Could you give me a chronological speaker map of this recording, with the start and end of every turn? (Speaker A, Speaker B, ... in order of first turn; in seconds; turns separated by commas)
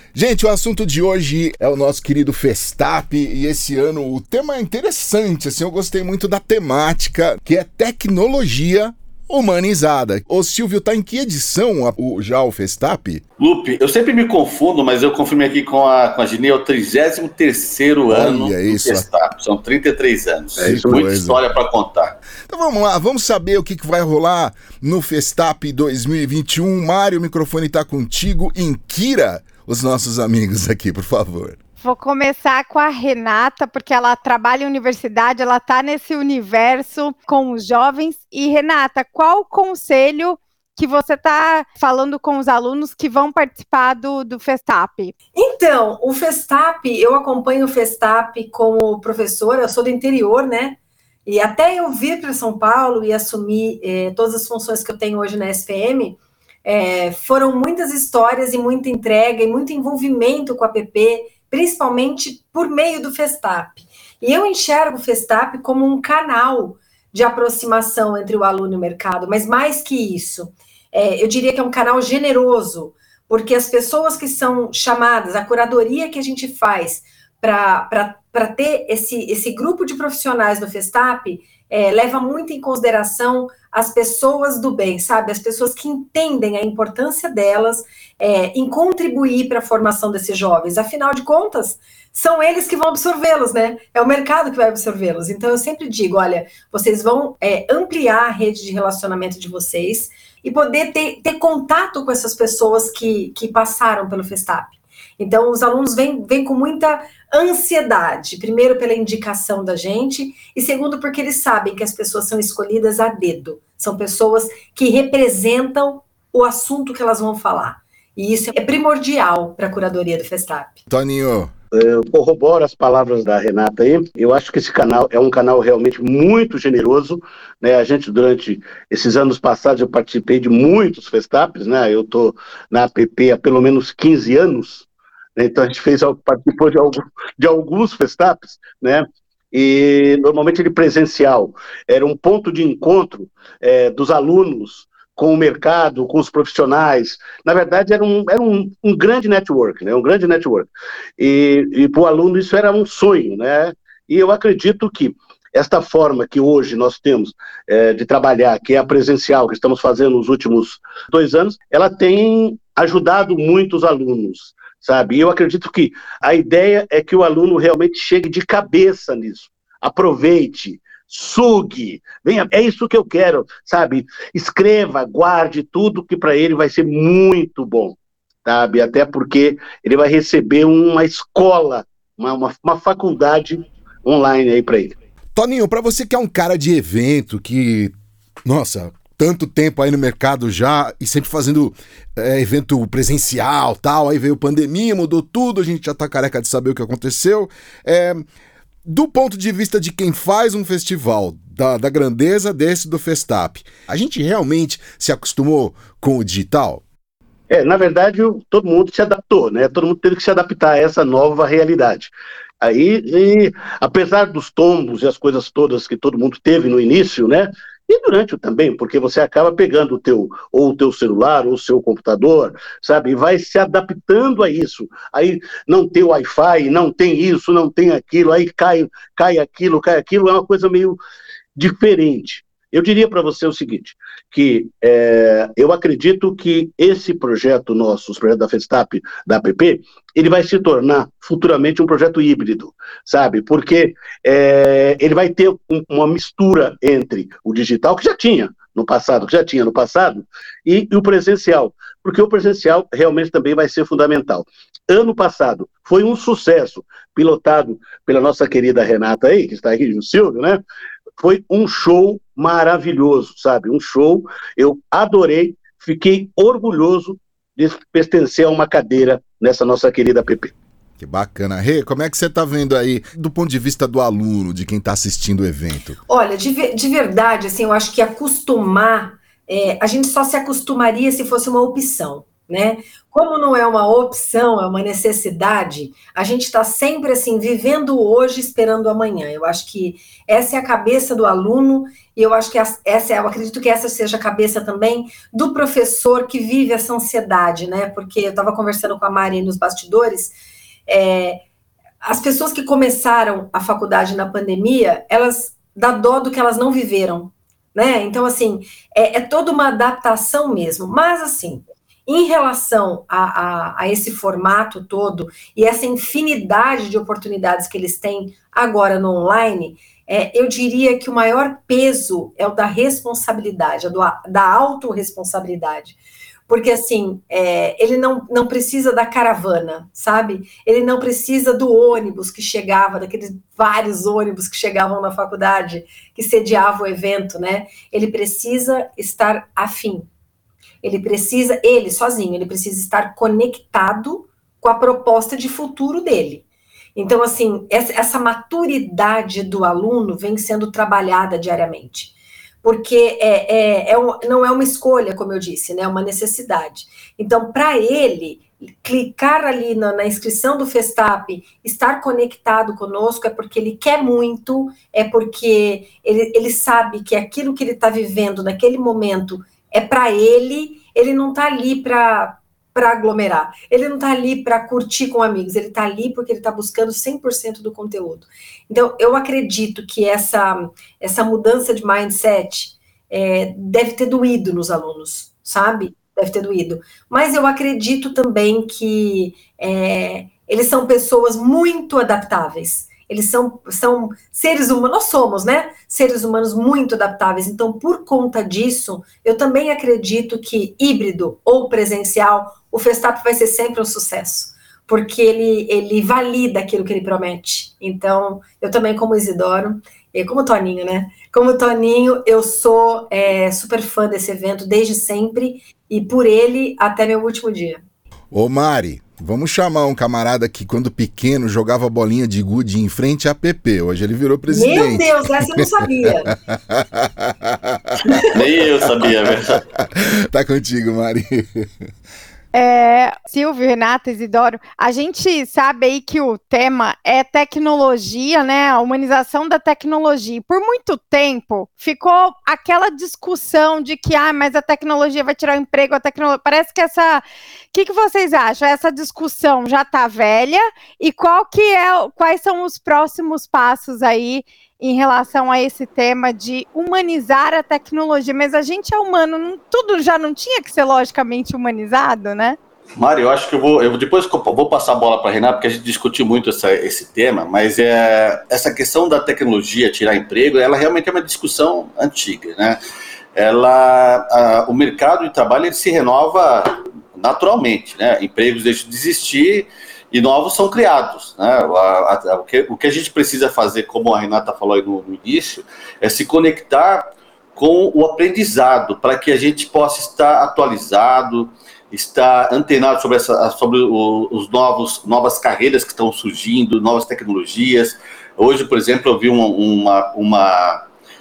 Speaker A: 0.1-13.2, Speaker B: 13.4-22.2, Speaker A: 18.1-19.1, Speaker A: 20.6-21.4, Speaker C: 20.6-20.9, Speaker A: 22.5-31.6, Speaker D: 31.8-45.1, Speaker E: 45.3-120.8, Speaker A: 120.9-121.5, Speaker C: 121.7-185.0, Speaker A: 185.3-187.9, Speaker A: 188.4-198.2, Speaker A: 198.8-206.8, Speaker C: 207.5-231.0, Speaker C: 231.6-260.6, Speaker C: 261.2-270.5, Speaker A: 271.0-276.0, Speaker E: 276.1-300.3, Speaker E: 300.9-301.4, Speaker E: 302.0-325.9, Speaker E: 326.5-340.1, Speaker E: 340.8-346.4, Speaker E: 346.9-417.8, Speaker A: 418.3-425.6, Speaker E: 424.5-426.3, Speaker A: 426.5-428.2, Speaker B: 428.2-429.6, Speaker A: 428.8-431.7, Speaker D: 432.5-462.6, Speaker B: 463.0-472.8, Speaker B: 473.4-500.8